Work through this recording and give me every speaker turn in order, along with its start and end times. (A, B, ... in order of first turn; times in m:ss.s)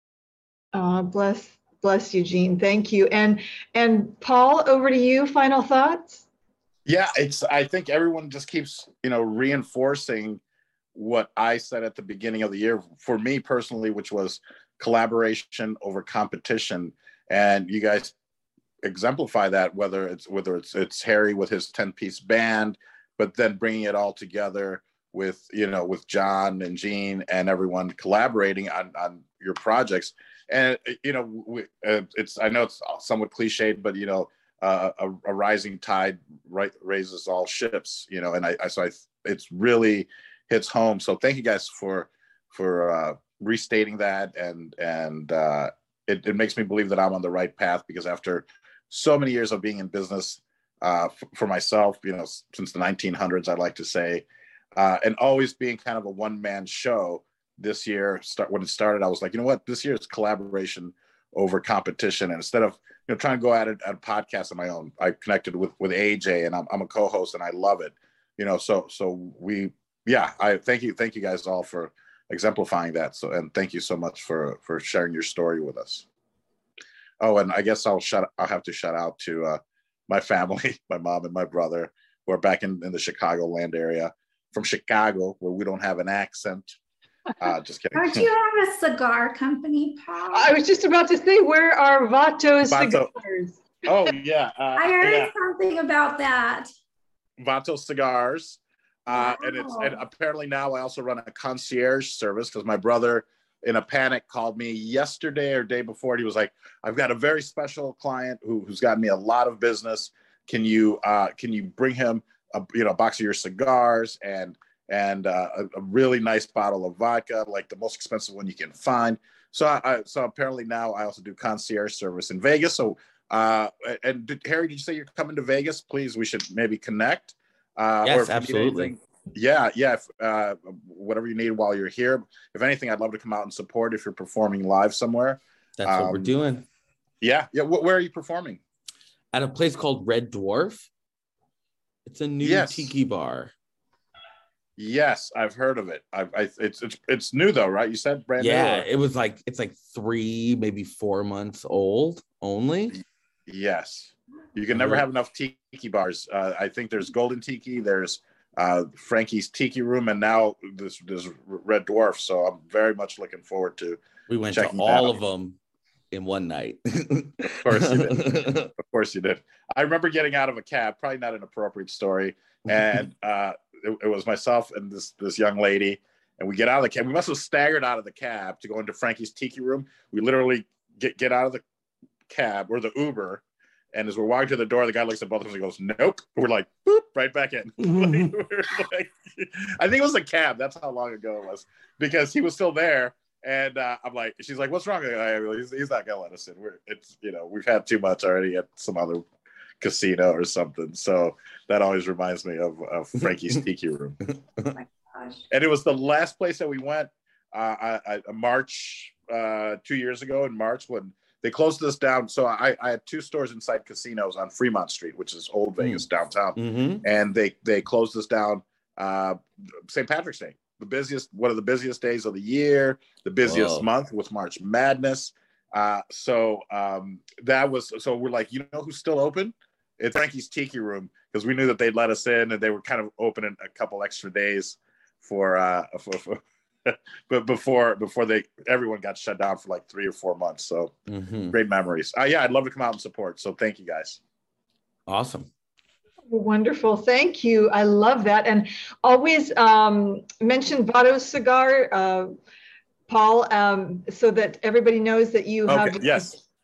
0:00.7-0:06.2 A
0:06.9-0:10.4 B
0:11.0-0:18.1 B
0:18.8-0:54.2 B
0:54.8-1:16.1 B
1:17.2-1:26.8 B
1:27.4-1:28.2 B
1:27.9-1:30.5 C
1:30.3-1:33.6 A
1:32.7-1:33.1 B
1:33.9-1:35.3 B
1:34.8-1:36.7 C
1:37.4-2:16.3 B
1:39.1-1:40.0 C
2:08.0-2:08.9 D
2:15.8-2:16.7 D
2:17.2-2:18.6 B
2:19.3-2:20.9 D
2:22.1-2:23.5 D
2:22.4-2:22.9 B
2:24.8-2:28.9 B
2:28.4-2:33.0 D
2:32.9-2:44.0 B
2:34.7-2:35.0 D
2:44.3-2:45.6 D
2:44.5-2:45.2 B
2:46.1-2:48.7 D
2:47.6-3:01.6 B
2:52.7-2:53.0 D
3:02.3-3:19.2 B
3:19.8-3:24.2 B
3:24.7-3:25.4 C
3:25.5-4:00.9 B
3:36.6-3:37.0 D
3:43.4-3:43.9 D
4:01.1-4:01.6 D
4:01.5-4:04.2 B
4:05.1-4:05.5 D
4:06.3-4:12.3 A
4:13.1-4:16.3 A
4:15.7-4:16.4 B